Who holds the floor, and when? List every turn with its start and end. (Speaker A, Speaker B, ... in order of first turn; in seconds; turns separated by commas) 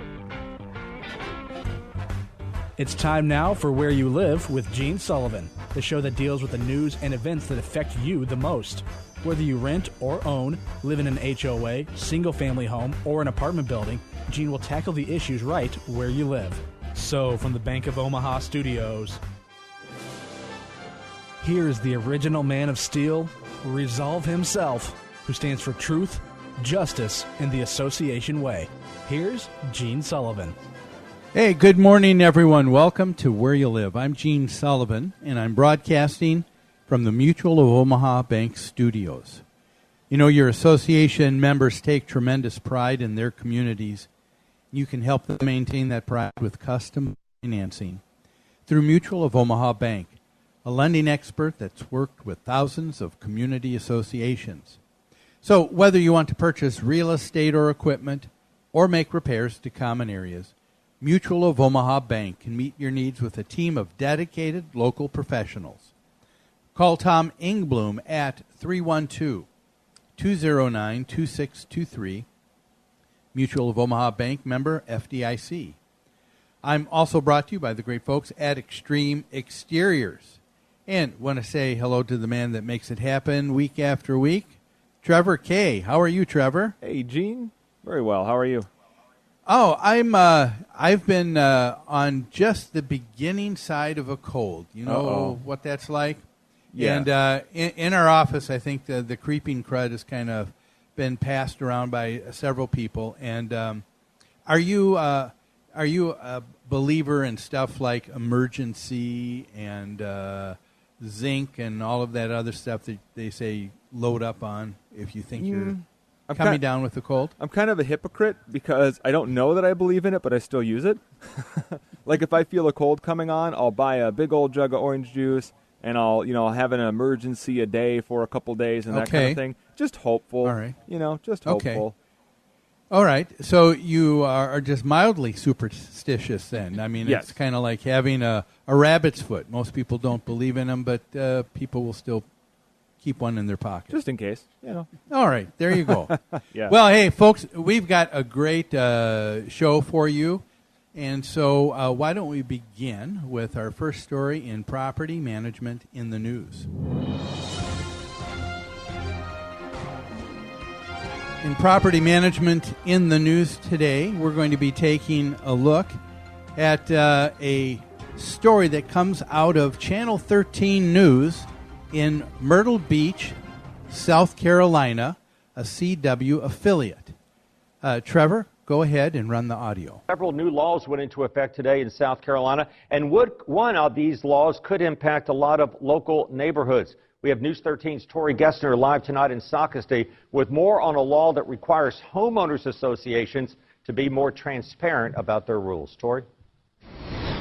Speaker A: 2.8-19.2, Speaker A: 21.4-30.6, Speaker B: 31.3-39.4, Speaker B: 40.1-44.1, Speaker B: 44.7-48.0, Speaker B: 48.7-54.8, Speaker B: 55.4-65.9, Speaker B: 66.7-69.5, Speaker B: 70.2-72.2, Speaker B: 73.3-75.8, Speaker B: 76.6-86.7, Speaker C: 86.9-88.6, Speaker B: 89.5-96.2, Speaker C: 95.0-95.3, Speaker B: 96.8-103.8, Speaker B: 104.5-115.8, Speaker B: 116.3-117.3, Speaker C: 117.6-119.2, Speaker C: 120.2-121.0, Speaker C: 122.1-124.7, Speaker C: 125.7-126.2, Speaker C: 126.7-130.2, Speaker B: 128.9-129.4, Speaker B: 130.4-130.8, Speaker B: 131.4-131.8, Speaker B: 132.9-142.2, Speaker B: 143.0-143.9, Speaker C: 143.9-144.8, Speaker B: 145.1-146.2, Speaker B: 146.7-156.7, Speaker B: 161.4-166.0, Speaker B: 166.6-173.4, Speaker B: 173.9-177.1, Speaker B: 177.8-180.0, Speaker D: 180.1-196.3